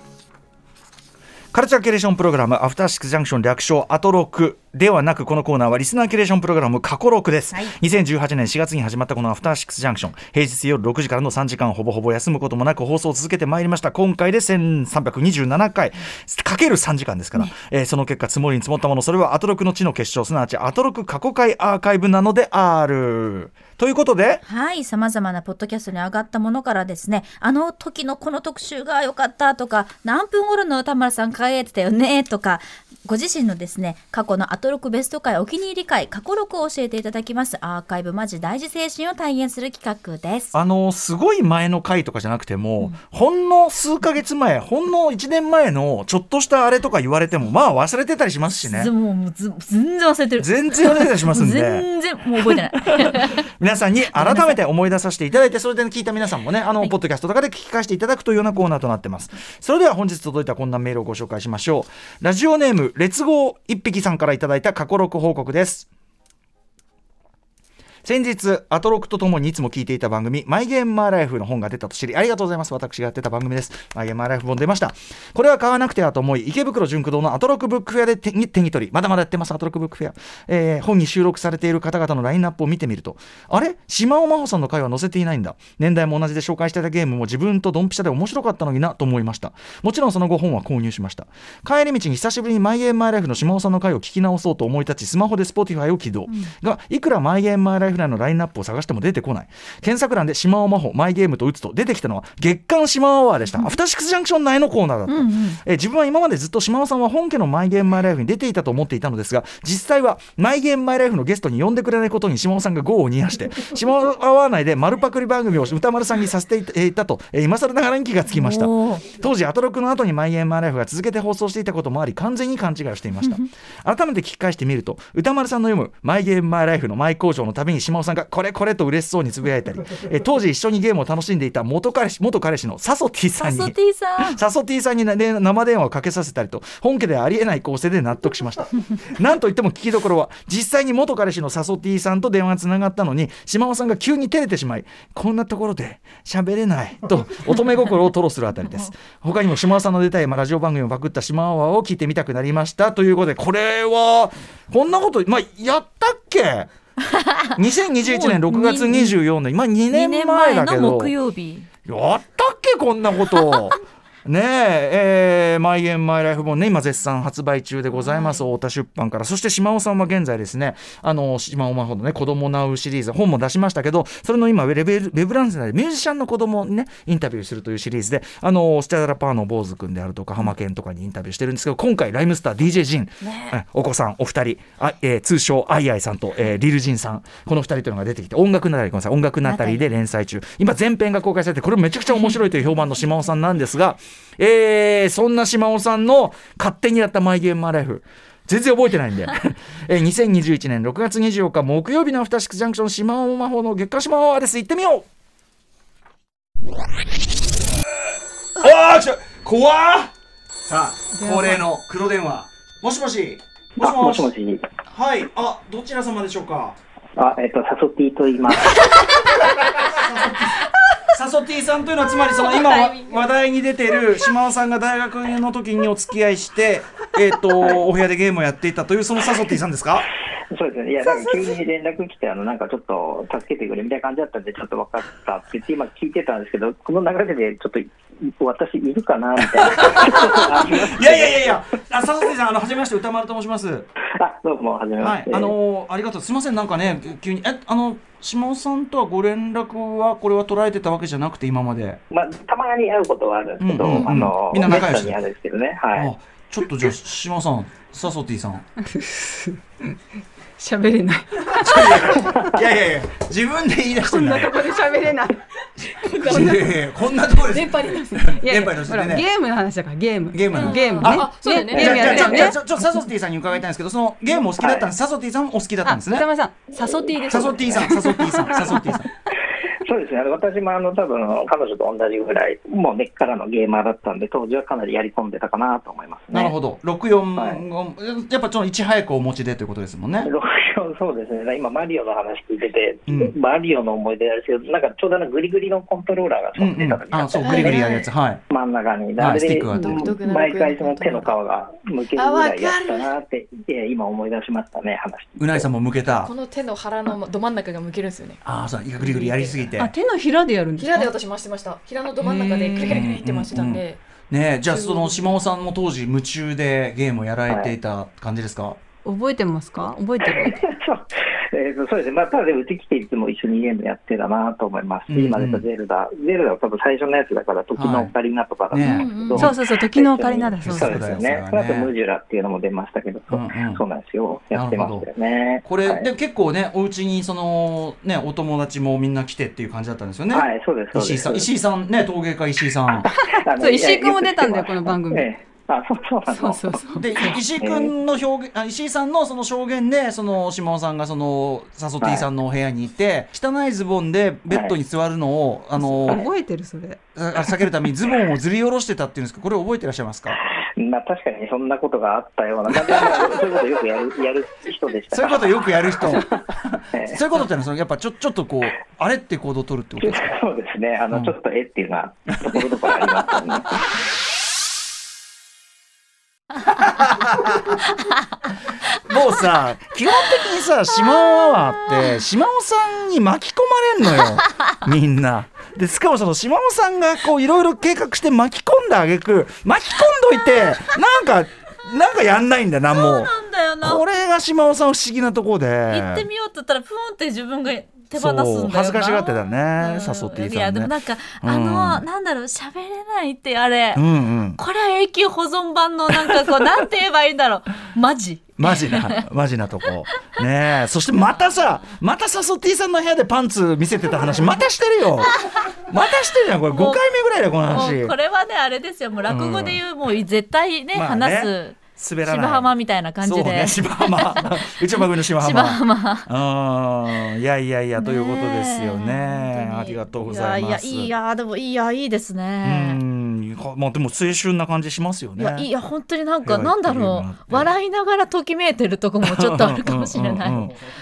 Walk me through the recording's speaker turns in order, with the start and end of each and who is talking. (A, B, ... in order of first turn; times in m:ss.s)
0:01.5-0:24.4 A
0:24.4-0:40.6 B
0:40.5-0:48.9 A
0:48.6-0:53.4 B
0:50.4-0:51.9 A
0:52.4-1:05.9 A
1:08.0-2:36.7 A
1:45.1-1:45.6 B
1:58.3-1:59.1 B
2:13.4-2:14.4 B
2:37.6-2:41.1 A
2:38.0-2:39.2 B
2:39.9-2:41.7 B
2:41.9-3:25.0 A
2:47.9-2:48.4 B
3:09.4-3:09.9 B
3:28.6-3:30.1 A
3:30.6-3:34.3 A
3:31.1-3:31.6 C
3:33.8-3:34.6 D
3:34.9-3:36.8 A
3:37.2-3:38.9 D
3:39.4-3:40.6 A
3:41.1-3:50.1 A
3:42.6-3:43.0 E
3:50.5-4:01.6 D
3:51.2-3:51.5 A
3:59.8-4:03.9 A
4:04.2-4:05.5 D
4:05.0-4:12.0 A
4:12.1-4:16.1 D
4:13.6-4:15.2 A
4:15.9-4:18.6 A
4:18.9-4:19.6 C
4:20.6-4:22.3 C
4:21.6-4:24.7 A
4:24.0-4:26.6 C
4:26.1-4:26.4 E
4:26.2-4:29.3 A
4:27.4-4:28.0 E
4:28.0-4:32.6 C
4:30.3-4:36.3 A
4:30.5-4:32.6 E
4:31.7-4:32.2 D
4:34.5-4:34.9 D
4:35.8-4:38.8 C
4:36.8-4:37.8 D
4:37.3-4:39.1 A
4:39.7-4:46.6 D
4:46.3-4:50.3 A
4:47.4-4:47.6 D
4:50.2-4:58.0 D
4:53.1-4:53.4 A
4:56.6-4:58.4 A
4:57.4-4:58.1 E
4:58.5-5:05.7 D
4:59.2-5:00.1 A
4:59.7-5:01.4 E
5:02.1-5:03.1 E
5:05.4-5:06.3 A
5:06.2-5:08.4 E
5:08.4-5:09.9 A
5:09.0-5:09.7 E
5:09.7-5:11.1 C
5:10.8-5:14.0 E
5:12.2-5:13.1 C
5:12.8-5:18.8 A
5:14.7-5:15.3 E
5:17.5-5:17.7 D
5:19.0-5:20.6 C
5:20.3-5:36.1 D
5:25.1-5:25.6 A
5:27.8-5:28.1 A
5:28.7-5:29.6 A
5:28.8-5:29.4 E
5:29.3-5:31.0 C
5:30.6-5:31.9 A
5:33.3-5:33.8 A
5:34.5-5:35.1 A
5:35.6-5:43.1 A
5:40.3-5:41.5 D
5:43.0-5:46.8 D
5:43.1-5:45.3 C
5:46.3-5:47.4 C
5:47.0-5:56.3 A
5:47.6-5:47.9 D
5:52.0-5:52.3 D
5:54.5-5:54.8 D
5:55.8-5:57.0 C
5:57.2-6:00.4 A
6:00.6-6:06.4 D
6:02.8-6:03.1 A
6:05.1-6:10.4 A
6:06.9-6:07.2 D
6:10.0-6:13.8 D
6:12.4-6:13.0 A
6:16.7-6:17.8 A
6:19.1-6:36.3 A
6:32.9-6:34.0 B
6:35.9-6:44.0 B
6:38.1-6:42.0 A
6:44.0-6:44.6 A
6:44.6-6:49.2 B
6:48.6-6:58.2 A
6:56.7-6:57.0 B
6:57.7-7:06.3 B
6:59.3-6:59.8 A
7:00.9-7:02.7 A
7:03.2-7:11.1 A
7:08.0-7:13.0 B
7:12.6-7:15.7 A
7:15.4-7:20.6 B
7:16.4-7:17.7 A
7:19.2-7:20.8 A